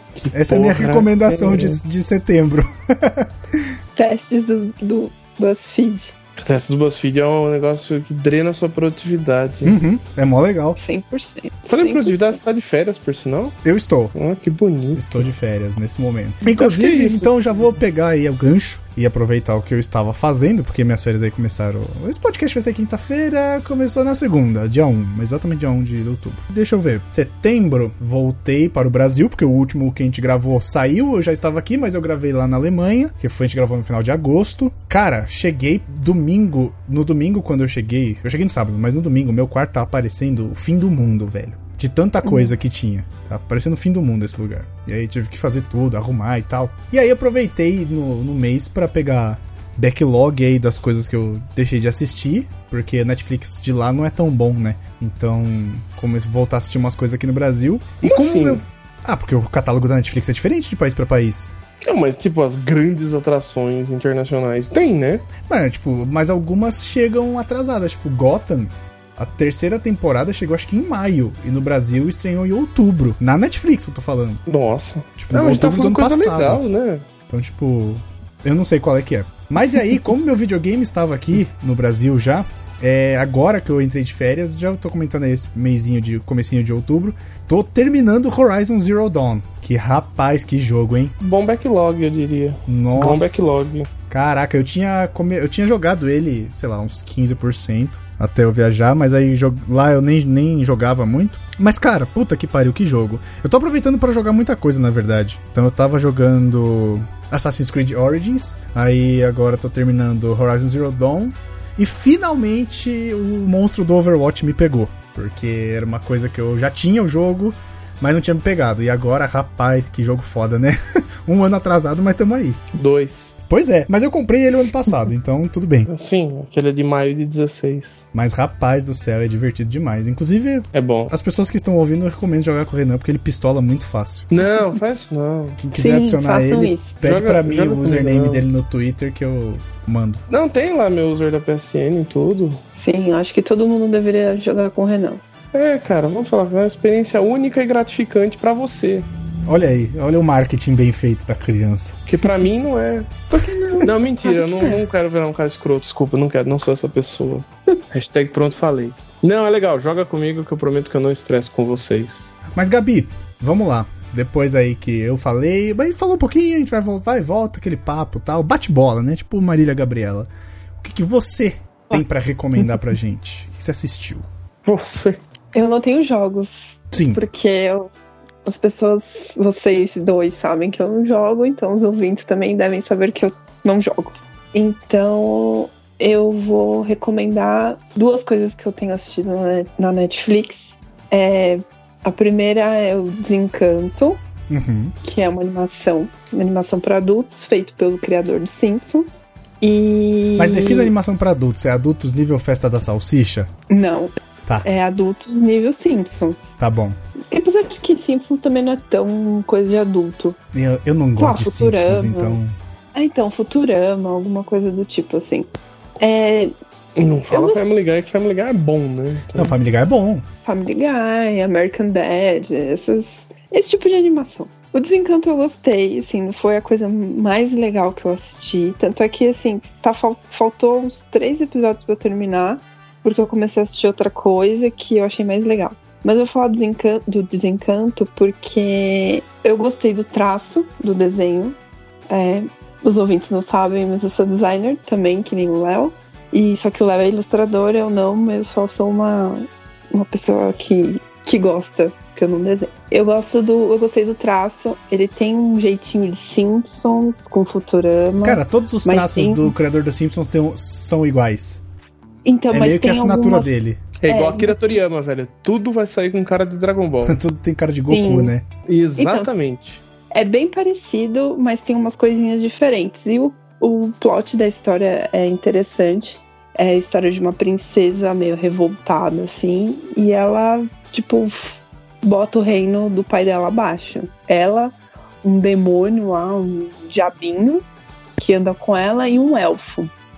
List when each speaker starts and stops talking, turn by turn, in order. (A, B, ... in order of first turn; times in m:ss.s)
0:00.2-0:01.8 A
0:00.3-0:03.7 B
0:04.0-0:06.1 C
0:06.4-0:09.8 A
0:09.6-0:10.8 B
0:10.8-0:12.4 C
0:11.7-0:13.6 A
0:13.6-0:14.1 B
0:14.1-0:15.3 A
0:15.0-1:01.5 B
0:16.4-0:17.8 A
0:42.2-0:42.5 C
0:58.0-0:58.6 A
1:01.9-1:05.3 A
1:05.4-1:14.4 B
1:14.5-1:17.0 A
1:15.2-1:16.6 B
1:17.3-1:31.1 B
1:31.2-1:33.9 A
1:32.7-2:02.6 B
2:02.7-2:03.4 A
2:03.5-2:05.9 B
2:05.9-2:08.1 A
2:08.1-2:14.3 B
2:10.7-2:11.1 A
2:14.3-2:15.6 A
2:15.6-2:20.2 B
2:15.8-2:16.9 C
2:17.0-2:18.4 A
2:20.3-2:22.6 A
2:22.8-2:25.2 C
2:25.5-2:29.1 A
2:29.5-2:32.0 B
2:32.1-2:33.3 A
2:33.3-2:34.8 C
2:33.8-2:42.4 A
2:42.5-2:54.2 B
2:54.6-2:55.2 A
2:55.5-2:57.9 C
2:56.9-2:57.2 B
2:58.4-3:14.2 C
3:14.5-3:14.9 B
3:15.0-3:20.9 C
3:20.4-3:23.5 B
3:23.7-3:26.6 C
3:26.6-3:27.0 B
3:27.3-3:30.4 C
3:30.5-3:32.5 B
3:31.2-3:32.4 C
3:33.0-3:36.5 C
3:37.0-3:39.6 A
3:37.3-3:37.6 C
3:39.4-3:40.2 B
3:40.5-4:01.6 C
4:02.1-4:19.6 C
4:18.2-4:21.6 B
4:22.2-4:23.5 C
4:22.5-4:23.8 B
4:24.0-4:27.2 A
4:24.1-4:24.8 C
4:27.0-4:28.5 B
4:27.9-4:28.3 C
4:28.7-4:29.8 A
4:29.0-4:29.3 C
4:30.1-4:47.6 C
4:48.2-4:49.9 C